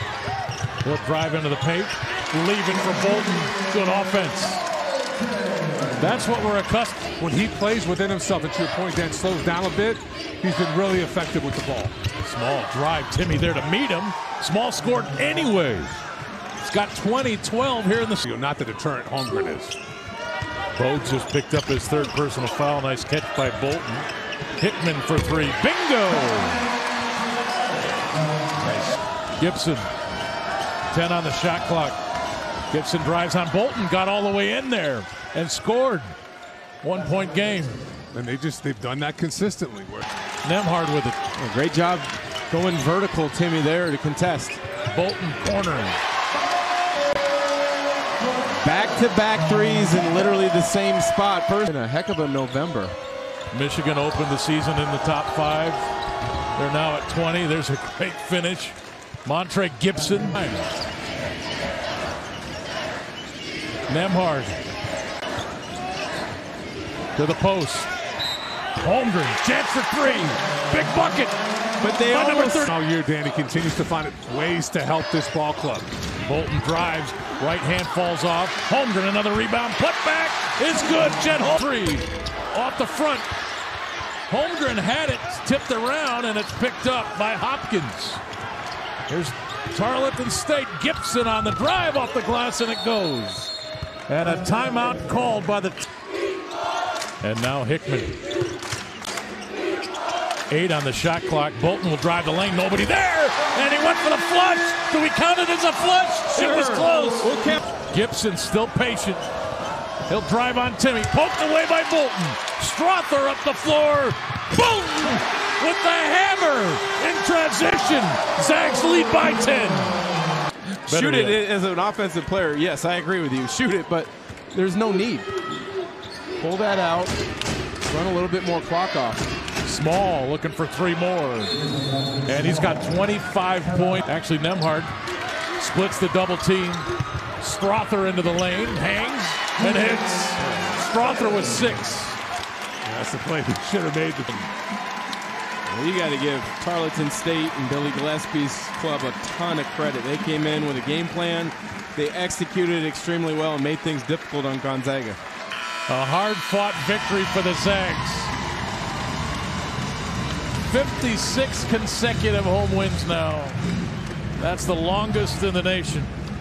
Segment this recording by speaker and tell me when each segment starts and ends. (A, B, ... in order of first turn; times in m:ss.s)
0:00.8-0:04.6 A
0:06.0-0:07.1 A
0:07.2-0:12.0 B
0:12.2-0:16.0 A
0:16.6-0:18.2 A
0:18.2-0:19.8 B
0:20.7-0:26.7 A
0:28.6-0:29.9 A
0:30.9-0:32.0 A
0:32.7-0:36.2 A
0:36.8-0:37.8 A
0:38.1-0:40.0 B
0:40.4-0:41.2 A
0:41.3-0:44.6 C
0:44.9-0:46.0 A
0:48.6-0:52.9 C
0:53.5-0:55.9 A
0:56.5-1:00.8 A
1:03.9-1:04.6 A
1:07.1-1:07.9 A
1:08.8-1:11.3 A
1:11.8-1:12.7 C
1:11.9-1:12.7 A
1:12.6-1:15.9 B
1:16.2-1:23.3 A
1:24.3-1:28.2 A
1:29.1-1:33.5 A
1:34.1-1:35.9 A
1:37.2-1:38.1 A
1:40.5-1:49.3 A
1:46.3-1:47.6 C
1:50.0-2:00.0 A
2:00.8-2:05.3 C
2:00.9-2:01.4 A
2:06.4-2:07.2 C
2:07.9-2:09.3 C
2:09.6-2:11.6 A
2:12.2-2:14.9 A
2:15.6-2:16.9 A
2:17.4-2:22.2 A
2:22.8-2:24.5 B
2:25.7-2:35.2 C
2:35.9-2:38.3 A
2:40.6-2:43.6 A
2:44.4-2:46.1 A